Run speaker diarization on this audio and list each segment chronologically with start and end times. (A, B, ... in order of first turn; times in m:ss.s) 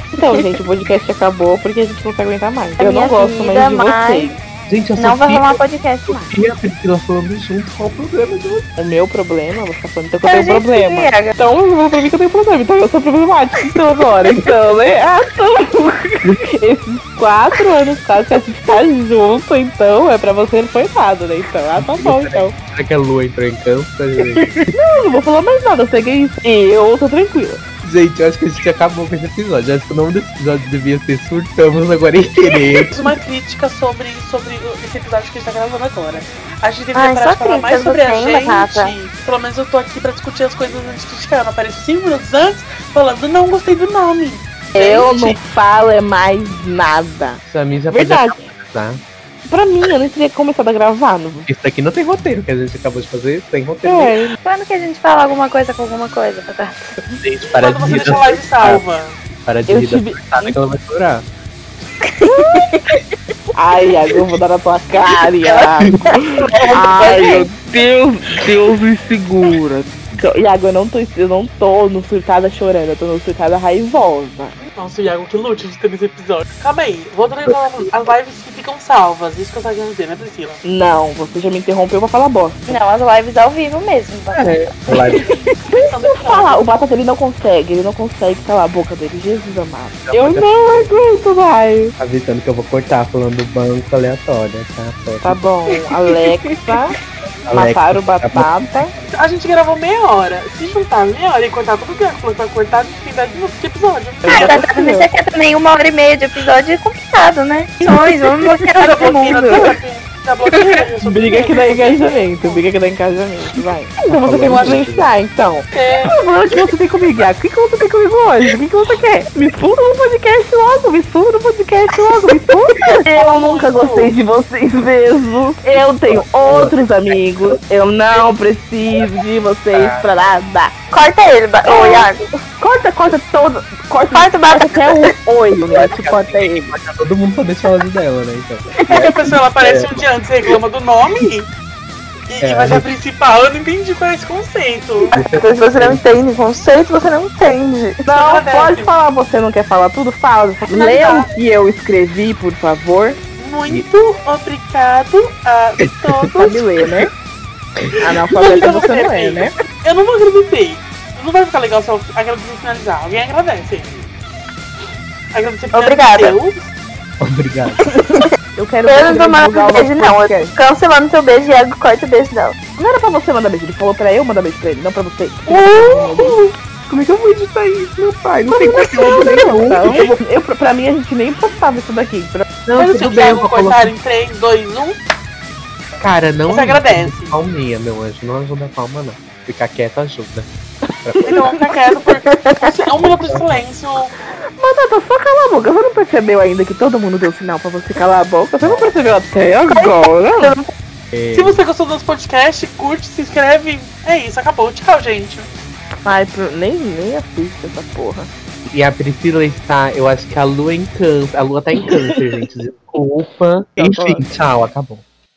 0:00.1-0:04.4 A
0:02.8-0:04.3 B
0:04.7-0:08.7 C
0:05.0-0:06.3 B
0:08.8-0:22.5 A
0:10.3-0:11.3 B
0:21.8-0:24.7 C
0:24.2-0:27.6 A
0:27.8-0:33.0 C
0:32.7-0:45.4 D
0:36.9-0:38.9 B
0:44.7-0:48.4 A
0:47.4-0:49.0 C
0:49.5-0:51.5 A
0:51.5-0:54.2 C
0:53.8-0:54.4 A
0:54.4-0:56.9 B
0:57.2-0:58.8 C
0:57.5-0:59.2 D
0:59.4-1:01.2 C
0:59.7-1:00.6 A
1:02.1-1:03.0 B
1:02.2-1:02.6 A
1:03.5-1:06.1 A
1:05.4-1:07.5 B
1:06.4-1:06.8 C
1:06.7-1:14.6 A
1:14.7-1:20.6 D
1:20.6-1:22.8 A
1:22.7-1:24.8 B
1:24.3-1:25.3 C
1:24.9-1:31.9 A
1:25.9-1:26.6 D
1:30.0-1:30.9 C
1:32.0-1:35.4 C
1:35.2-1:37.0 A
1:37.5-1:38.6 C
1:37.5-1:38.9 A
1:39.1-1:44.6 D
1:44.2-1:45.1 A
1:44.3-1:49.7 B
1:48.4-1:52.7 D
1:50.5-1:50.8 B
1:51.0-2:10.7 A
1:54.1-1:55.1 C
1:55.7-1:56.2 D
2:03.2-2:04.1 D
2:06.1-2:07.6 C
2:09.7-2:10.1 C
2:10.9-2:12.2 B
2:11.7-2:12.1 A
2:12.6-2:16.7 A
2:14.1-2:15.1 B
2:15.7-2:20.6 C
2:18.9-2:21.5 D
2:22.3-2:25.1 D
2:22.4-2:22.9 C
2:25.1-2:28.0 B
2:25.1-2:26.0 C
2:28.0-2:33.2 A
2:28.1-2:28.9 D
2:30.7-2:31.3 D
2:33.4-2:36.8 D
2:35.8-2:36.3 C
2:36.3-2:37.1 A
2:38.0-2:39.5 A
2:38.0-2:44.1 D
2:45.3-2:46.7 D
2:45.7-2:46.4 B
2:47.2-2:47.8 C
2:48.0-2:48.2 B
2:48.0-2:50.5 A
2:48.8-2:52.6 B
2:52.8-2:56.4 A
2:55.5-2:56.6 D
2:56.9-2:57.5 A
2:57.5-3:00.0 C
2:58.5-3:02.5 A
3:02.6-3:03.9 C
3:02.8-3:05.0 D
3:06.0-3:10.5 C
3:06.5-3:07.4 D
3:11.0-3:11.5 C
3:11.2-3:11.8 A
3:11.2-3:14.1 D
3:12.4-3:12.7 B
3:13.0-3:13.6 C
3:14.4-3:20.6 A
3:18.6-3:19.2 C
3:19.7-3:20.7 B
3:21.1-3:21.6 C
3:21.3-3:25.5 D
3:26.0-3:28.3 A
3:28.7-3:35.0 C
3:33.8-3:34.3 A